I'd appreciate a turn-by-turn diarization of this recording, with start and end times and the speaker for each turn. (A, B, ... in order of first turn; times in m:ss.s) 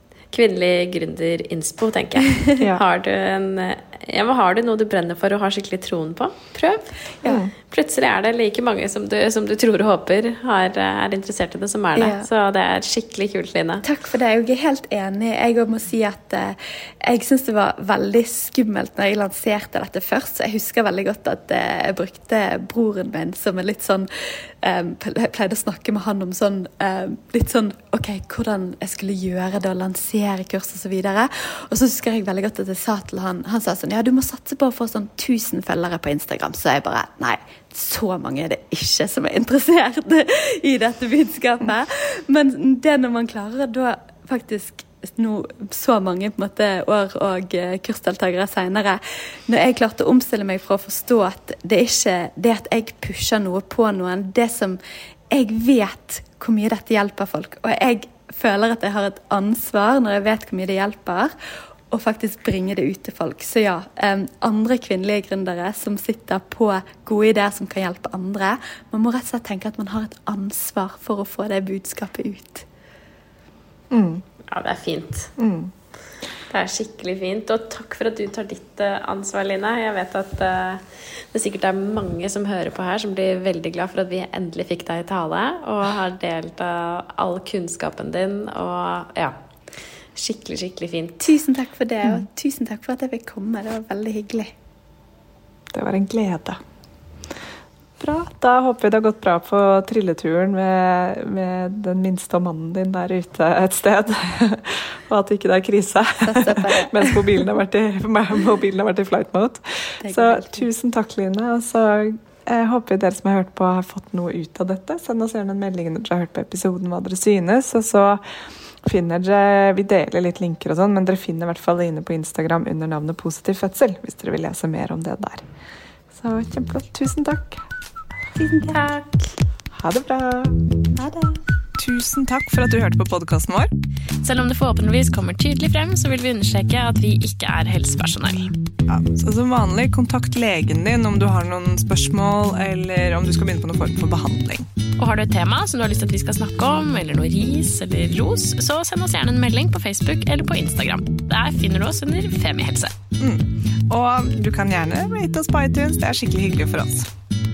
0:00.3-0:06.9 A
0:07.2-0:07.5 B
0:07.5-0:13.8 A
0:12.0-0:12.3 C
0:13.8-0:54.8 C
0:55.3-1:01.3 C
1:01.9-1:12.7 C
1:13.9-1:14.2 B
1:14.5-1:15.3 A
1:15.4-1:15.7 B
1:16.5-1:29.4 A
1:30.2-1:31.3 A
1:31.2-1:34.5 C
1:35.7-1:36.6 B
1:38.0-1:58.2 B
1:46.2-1:47.3 C
1:50.0-1:50.7 C
1:58.8-2:05.4 B
2:06.1-2:07.7 B
2:08.4-2:09.0 C
2:08.7-2:09.0 A
2:09.7-2:10.6 B
2:11.0-2:11.4 C
2:11.8-2:13.7 B
2:14.2-2:18.6 A
2:18.9-2:24.7 B
2:25.0-2:33.0 A
2:33.2-2:37.1 B